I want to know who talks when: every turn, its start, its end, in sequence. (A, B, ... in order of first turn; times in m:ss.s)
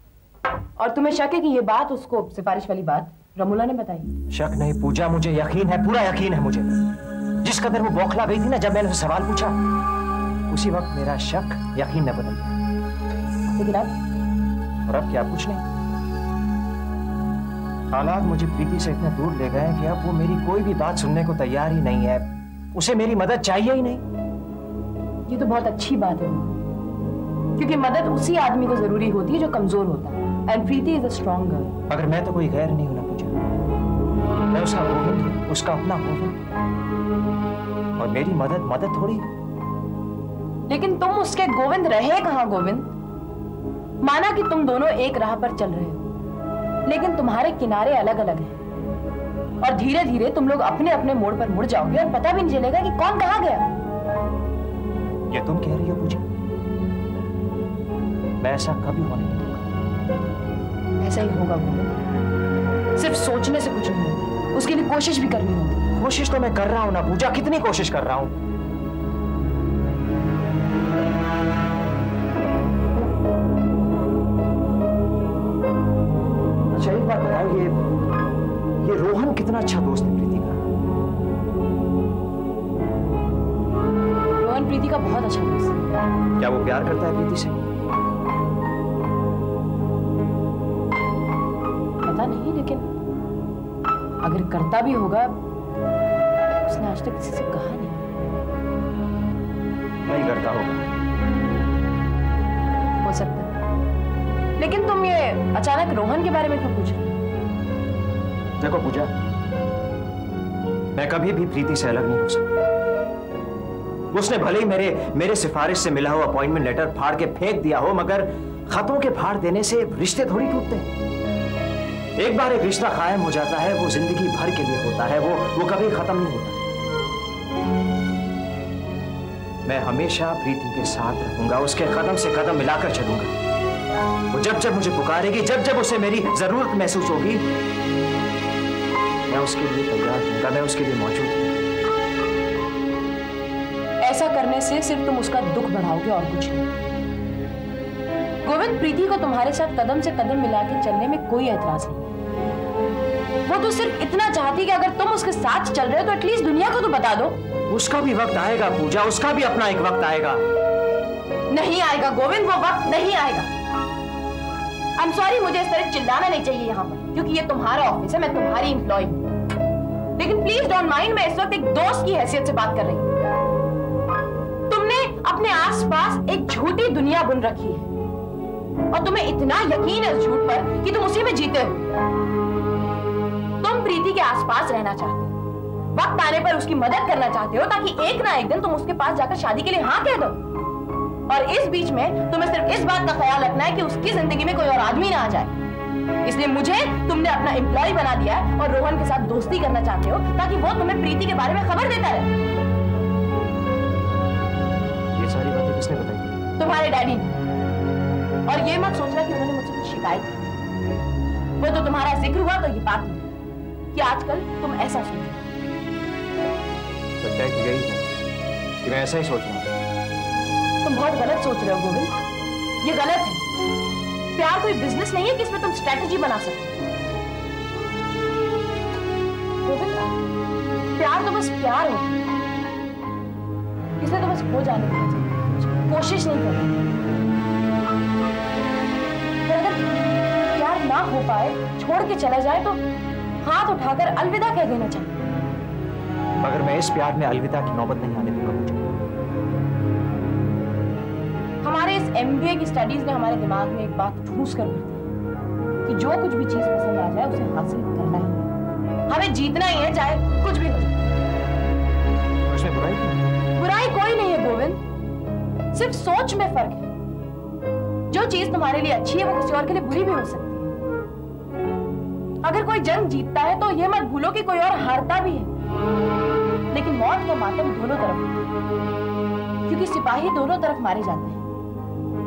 0:00.8-0:04.1 A
0:04.3-0:06.8 B
0:07.4-0:09.6 B
0:10.5-0:12.6 B
0:13.5-0:13.9 A
0:14.9-0:15.6 B
0:17.9-0:24.0 B
0:25.3-0:26.6 A
0:27.6-0:31.7 A
0:31.9-0:33.4 B
0:34.5-0:36.4 B
0:38.0-0:39.3 B
0:40.7-0:42.9 A
0:44.0-0:46.1 A
0:46.9-0:48.6 A
0:49.6-0:53.7 A
0:55.3-0:56.3 B
0:58.4-0:59.7 B
1:01.0-1:01.9 A
1:03.0-1:05.9 A
1:06.0-1:08.4 B
1:16.7-1:17.8 B
1:18.8-1:20.6 B
1:24.4-1:25.9 A
1:26.4-1:27.6 B
1:32.0-1:32.9 A
1:34.2-1:35.4 A
1:36.6-1:38.0 A
1:40.1-1:40.8 B
1:43.0-1:43.5 A
1:44.6-1:47.2 A
1:48.6-1:49.1 B
1:51.0-1:52.4 B
1:54.1-2:00.9 B
2:02.2-2:06.6 B
2:09.7-2:13.3 B
2:14.3-2:17.5 B
2:19.3-2:21.6 B
2:24.0-2:26.7 A
2:28.4-2:32.1 A
2:33.5-2:37.4 A
2:37.7-2:40.4 B
2:41.5-2:43.5 A
2:45.0-2:49.2 A
2:50.2-2:53.1 A
2:54.7-2:57.9 A
2:58.9-3:01.8 A
3:03.6-3:05.3 A
3:05.9-3:10.4 A
3:11.3-3:15.6 A
3:16.2-3:22.3 A
3:25.2-3:26.4 B
3:26.6-3:27.4 A
3:28.5-3:30.5 A
3:31.6-3:33.3 A
3:33.9-3:35.5 A
3:37.2-3:38.1 B
3:38.8-3:39.8 B
3:40.8-3:42.2 A
3:42.8-3:43.5 A
3:44.4-3:46.8 A
3:49.6-3:50.1 A
3:51.0-3:52.2 A
3:54.0-3:56.8 A
3:59.4-4:00.0 A
4:00.5-4:02.8 A
4:03.4-4:05.2 A
4:06.4-4:09.0 B
4:11.6-4:15.1 A
4:15.8-4:18.5 A
4:19.1-4:21.0 A
4:22.5-4:23.2 B
4:23.6-4:24.8 A
4:25.7-4:26.9 A
4:28.1-4:30.7 A
4:32.4-4:35.5 A
4:36.7-4:38.5 A
4:39.7-4:41.4 A